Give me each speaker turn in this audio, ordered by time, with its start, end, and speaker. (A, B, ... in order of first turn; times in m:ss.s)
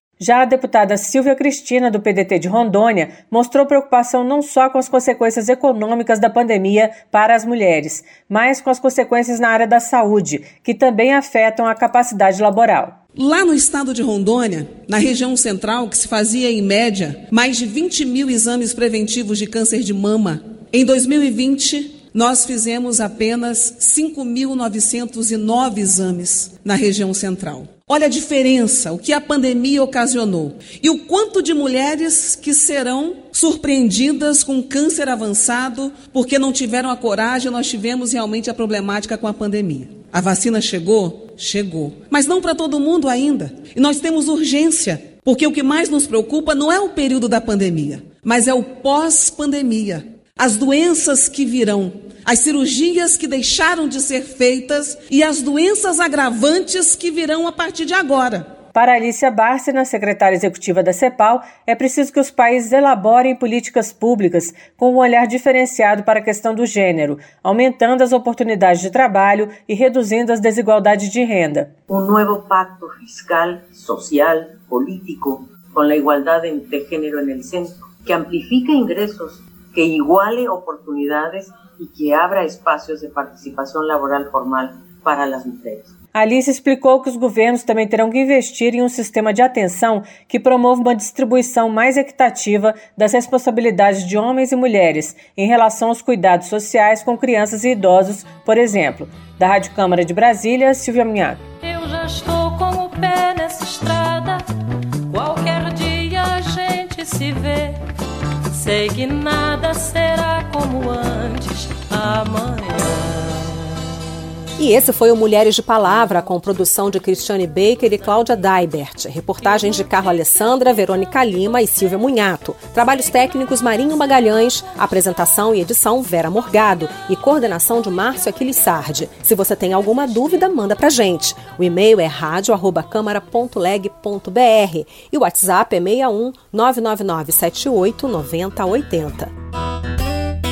0:00.2-0:12.9 A
0:13.2-0:58.5 B
0:58.7-1:11.7 A
1:11.9-1:25.9 C
1:26.1-1:41.4 A
1:41.6-1:44.4 D
1:45.1-1:47.8 D
1:48.5-1:53.4 D
1:54.6-2:19.3 E